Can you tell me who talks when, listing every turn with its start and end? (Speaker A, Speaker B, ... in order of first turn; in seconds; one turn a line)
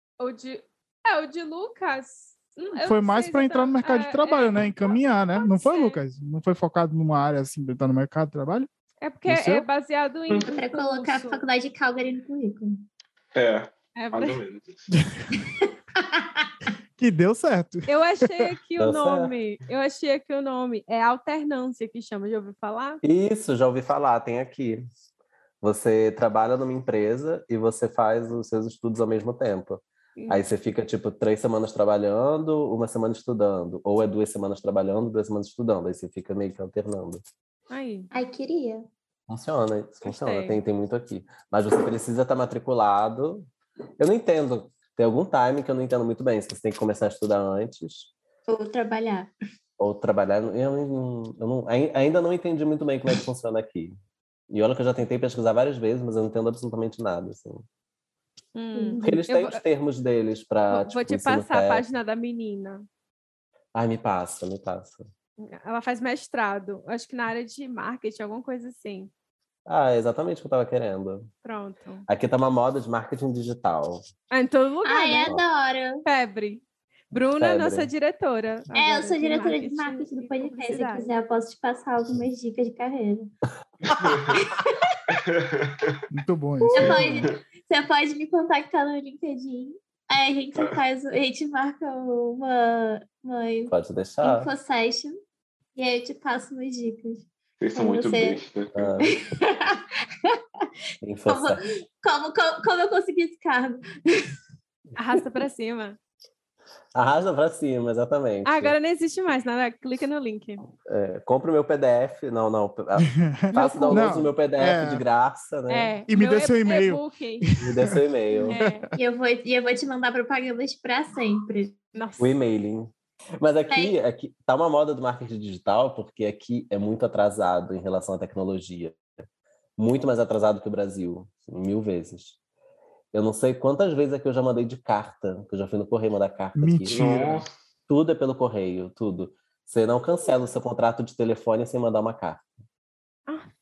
Speaker A: 0.2-6.0
Speaker B: 2.8-8.7
Speaker A: 9.0-11.4
Speaker B: 9.3-9.7
Speaker C: 10.3-12.8
Speaker D: 13.3-14.9
Speaker A: 13.9-14.4
Speaker B: 14.9-15.3
Speaker C: 16.1-16.5
Speaker B: 17.0-18.4
Speaker A: 17.9-23.0
Speaker E: 18.8-19.3
Speaker E: 23.0-24.9
Speaker E: 25.6-37.2
Speaker A: 30.2-30.4
Speaker A: 37.7-38.1
Speaker C: 38.1-38.9
Speaker E: 39.3-43.5
Speaker A: 40.0-40.6
Speaker E: 44.0-48.1
Speaker C: 48.5-49.3
Speaker E: 49.8-54.0
Speaker E: 54.5-57.6
Speaker A: 58.5-59.6
Speaker C: 58.7-59.2
Speaker E: 59.0-61.8
Speaker A: 60.7-62.9
Speaker E: 63.7-65.1
Speaker A: 65.4-69.1
Speaker E: 69.7-71.3
Speaker A: 71.4-72.0
Speaker E: 72.1-74.0
Speaker A: 74.3-75.4
Speaker C: 74.8-76.0
Speaker A: 76.0-81.1
Speaker E: 77.4-77.9
Speaker C: 78.7-83.3
Speaker D: 83.8-84.4
Speaker E: 83.9-84.4
Speaker C: 84.3-85.0
Speaker D: 85.1-86.0
Speaker B: 86.1-87.1
Speaker D: 86.7-87.2
Speaker C: 86.7-95.2
Speaker E: 93.7-94.5
Speaker C: 95.8-98.4
Speaker D: 97.6-98.9
Speaker E: 98.7-99.2
Speaker C: 99.0-100.7
Speaker E: 101.0-101.6
Speaker C: 101.3-104.3
Speaker A: 105.0-106.0
Speaker E: 106.9-108.7
Speaker A: 108.4-110.6
Speaker E: 110.8-115.9
Speaker B: 113.0-115.0
Speaker C: 113.6-113.9
Speaker A: 115.7-117.5
Speaker B: 116.1-118.0
Speaker E: 117.6-118.6
Speaker A: 118.5-118.9
Speaker C: 119.0-121.8
Speaker A: 121.9-122.3
Speaker E: 122.2-129.0
Speaker C: 123.7-123.9
Speaker E: 129.8-132.4
Speaker E: 133.1-137.2
Speaker B: 136.6-137.4
Speaker D: 136.9-137.5
Speaker E: 137.9-142.5